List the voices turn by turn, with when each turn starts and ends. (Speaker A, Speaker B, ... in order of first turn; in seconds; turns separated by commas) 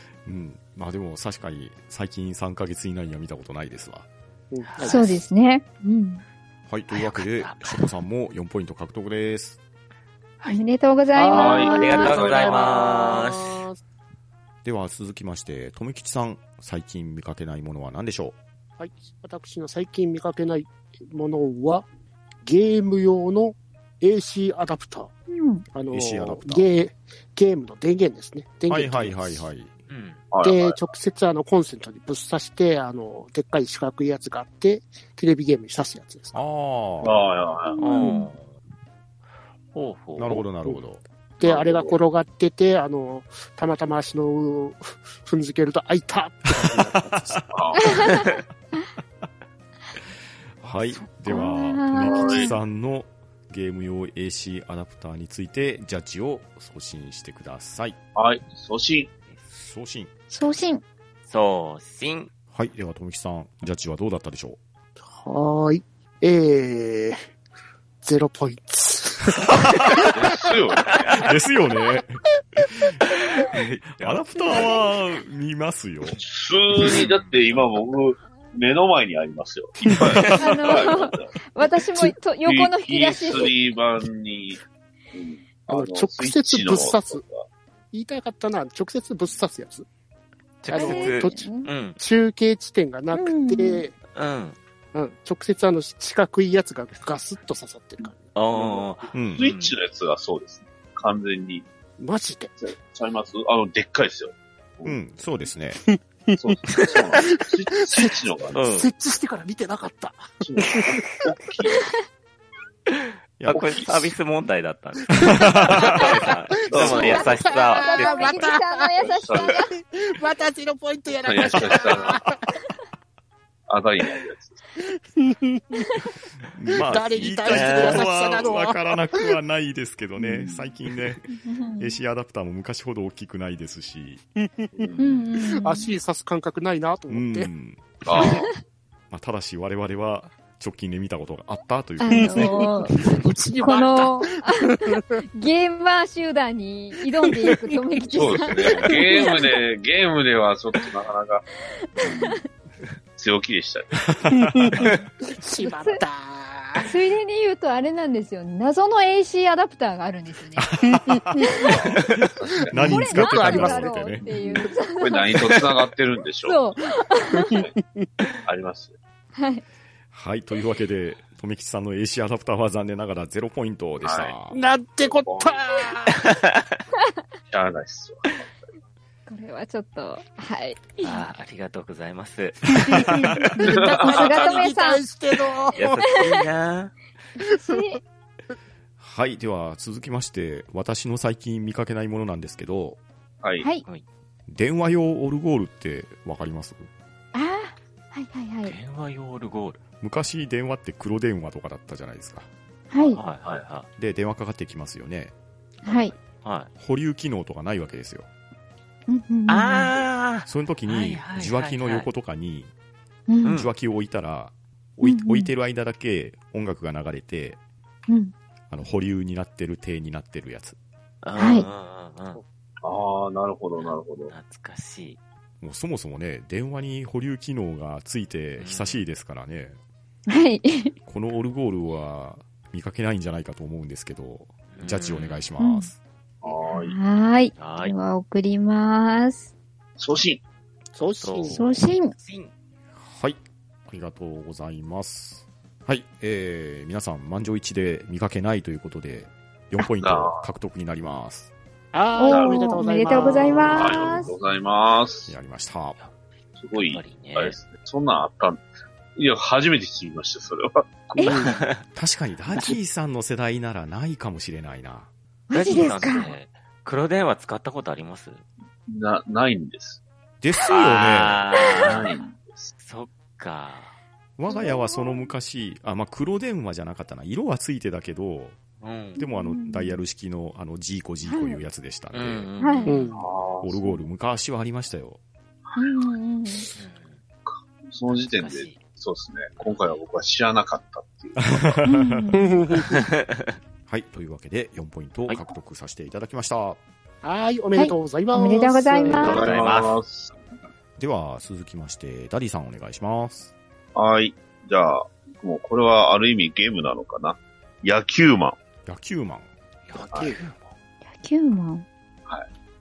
Speaker A: 0.2-4.0, Speaker B: 4.5-5.2, Speaker C: 4.7-5.2, Speaker D: 4.8-6.2, Speaker A: 6.7-9.6, Speaker C: 6.9-7.9, Speaker D: 10.4-12.3, Speaker B: 11.1-13.8, Speaker E: 11.3-13.0, Speaker C: 11.7-13.6, Speaker A: 14.6-18.4, Speaker B: 18.8-21.9, Speaker B: 22.4-25.1, Speaker D: 25.3-25.6, Speaker B: 25.7-29.4, Speaker A: 25.9-26.7, Speaker A: 28.7-29.7, Speaker C: 29.9-30.2, Speaker E: 30.3-30.8, Speaker B: 30.4-36.4, Speaker A: 36.3-37.3, Speaker E: 37.0-37.8, Speaker D: 37.7-38.3, Speaker C: 37.8-38.5, Speaker C: 39.7-40.4, Speaker A: 40.1-41.0, Speaker B: 40.3-40.8, Speaker B: 41.4-47.4, Speaker E: 41.4-42.0, Speaker A: 46.5-47.4, Speaker E: 47.5-48.0, Speaker D: 47.8-48.3, Speaker C: 47.9-48.4, Speaker A: 50.6-58.0, Speaker D: 51.2-52.6, Speaker E: 51.9-52.5, Speaker E: 58.1-59.1, Speaker A: 59.5-60.1, Speaker D: 60.3-60.8, Speaker C: 61.3-62.3, Speaker A: 62.5-64.6, Speaker B: 65.1-67.2, Speaker B: 68.0-70.4, Speaker E: 70.1-71.3, Speaker C: 70.8-71.3, Speaker A: 71.2-72.2, Speaker C: 73.4-74.8, Speaker A: 73.5-76.2, Speaker D: 74.3-74.8, Speaker E: 76.2-81.3, Speaker C: 77.0-77.6, Speaker A: 80.2-80.6, Speaker D: 80.3-83.5, Speaker E: 82.4-84.6, Speaker E: 85.1-87.4, Speaker B: 85.7-87.2, Speaker B: 87.9-89.8, Speaker C: 90.6-92.0, Speaker B: 90.7-94.0, Speaker D: 90.7-91.7, Speaker D: 93.1-93.8, Speaker C: 94.1-94.6, Speaker B: 94.9-98.7, Speaker C: 98.3-99.7, Speaker E: 98.8-101.7, Speaker A: 99.1-99.5, Speaker B: 102.0-102.5, Speaker E: 102.6-105.0, Speaker A: 104.8-105.8, Speaker B: 105.9-111.2, Speaker E: 106.4-108.6, Speaker C: 108.5-108.9, Speaker E: 110.4-111.8, Speaker C: 112.9-118.5, Speaker A: 113.4-113.7, Speaker A: 115.1-116.0, Speaker B: 115.2-115.7, Speaker E: 116.7-117.3, Speaker B: 116.7-119.1, Speaker D: 116.8-119.7, Speaker E: 119.1-119.6, Speaker B: 119.6-122.4, Speaker E: 121.2-122.2, Speaker E: 123.7-124.6, Speaker B: 125.0-125.9, Speaker A: 126.5-134.2, Speaker B: 126.8-129.3, Speaker C: 127.2-128.5, Speaker E: 130.4-130.7, Speaker D: 131.3-131.9, Speaker B: 134.6-134.9, Speaker E: 134.7-135.2, Speaker D: 135.0-135.9, Speaker B: 135.5-137.5, Speaker A: 137.1-138.0, Speaker E: 138.0-138.5, Speaker A: 139.1-142.9, Speaker D: 142.0-143.0, Speaker B: 142.1-145.0, Speaker D: 143.6-149.6, Speaker E: 148.1-151.4, Speaker B: 148.9-149.4, Speaker D: 151.8-152.4, Speaker E: 152.0-152.4, Speaker E: 153.2-154.2, Speaker A: 154.1-154.9, Speaker B: 154.4-156.9, Speaker D: 155.6-156.0, Speaker D: 156.8-160.7, Speaker A: 160.6-162.0, Speaker B: 160.9-161.4, Speaker E: 161.5-163.0, Speaker B: 162.7-164.7, Speaker A: 162.7-164.2, Speaker D: 162.7-165.5, Speaker E: 164.2-166.7, Speaker D: 166.4-167.6, Speaker E: 167.4-167.7, Speaker B: 167.5-167.8, Speaker E: 168.4-168.9, Speaker D: 169.3-169.6, Speaker A: 170.1-174.6, Speaker E: 174.0-174.3, Speaker B: 174.5-176.2, Speaker E: 175.2-175.6, Speaker C: 176.1-176.6, Speaker E: 177.5-178.5, Speaker D: 179.3-181.2, Speaker C: 181.0-183.1, Speaker B: 182.9-186.1, Speaker D: 183.4-185.0, Speaker E: 183.6-184.6, Speaker C: 185.7-186.9, Speaker D: 186.0-186.3, Speaker D: 187.4-188.0, Speaker A: 189.0-193.0, Speaker D: 193.6-193.8, Speaker A: 194.5-196.9, Speaker D: 197.3-198.7, Speaker C: 198.7-199.8, Speaker A: 200.0-202.5, Speaker D: 202.9-203.2, Speaker C: 203.1-203.9, Speaker A: 203.9-205.3, Speaker D: 205.8-206.1, Speaker C: 205.8-206.7, Speaker A: 206.8-208.3, Speaker D: 209.1-209.9, Speaker C: 209.5-212.1, Speaker A: 210.4-212.7, Speaker D: 213.3-213.6, Speaker C: 213.4-213.7, Speaker A: 213.5-217.6, Speaker D: 215.0-215.5, Speaker D: 218.1-218.3, Speaker A: 218.7-220.8, Speaker C: 221.2-222.4, Speaker D: 221.3-221.7, Speaker E: 222.8-224.3, Speaker C: 223.8-225.2, Speaker A: 225.6-229.8, Speaker C: 228.6-229.0, Speaker D: 230.3-230.9, Speaker A: 231.0-236.0, Speaker C: 234.7-235.5, Speaker D: 235.6-235.9, Speaker E: 236.4-237.0, Speaker D: 236.7-239.5, Speaker C: 237.6-237.9, Speaker E: 240.0-240.4, Speaker B: 240.9-241.7, Speaker C: 241.2-242.5, Speaker D: 241.5-242.1, Speaker A: 242.9-251.5, Speaker E: 250.0-250.5, Speaker B: 251.9-254.0, Speaker D: 252.2-254.3, Speaker E: 252.2-255.3, Speaker A: 255.3-256.0, Speaker E: 256.6-261.5, Speaker C: 256.7-257.6, Speaker D: 261.1-261.4, Speaker B: 261.2-261.6, Speaker C: 261.4-261.8, Speaker A: 261.9-265.1, Speaker D: 265.5-266.3, Speaker C: 265.5-268.4, Speaker E: 268.9-270.0, Speaker A: 270.4-271.4, Speaker C: 270.6-272.1, Speaker D: 271.6-272.3, Speaker E: 271.8-272.7, Speaker C: 272.8-273.9, Speaker A: 274.4-278.6, Speaker D: 274.5-275.3, Speaker C: 278.8-279.2, Speaker D: 279.2-280.0, Speaker A: 279.2-282.5, Speaker D: 281.2-281.6, Speaker C: 282.1-283.2, Speaker D: 282.6-283.0, Speaker B: 282.9-283.2, Speaker E: 283.1-284.0, Speaker A: 283.6-285.2, Speaker D: 285.8-286.7, Speaker C: 286.8-287.2, Speaker E: 287.4-291.6, Speaker C: 288.1-288.8, Speaker C: 289.6-289.9, Speaker A: 291.4-292.3, Speaker D: 291.9-292.4, Speaker B: 292.3-293.0, Speaker C: 292.9-293.5, Speaker A: 293.9-296.8, Speaker B: 297.2-299.4, Speaker D: 297.8-299.4, Speaker E: 299.1-300.3, Speaker C: 299.2-300.0, Speaker A: 301.0-303.5, Speaker E: 303.9-308.6, Speaker A: 308.9-309.5, Speaker C: 309.9-310.7, Speaker B: 310.0-310.4, Speaker D: 311.1-311.9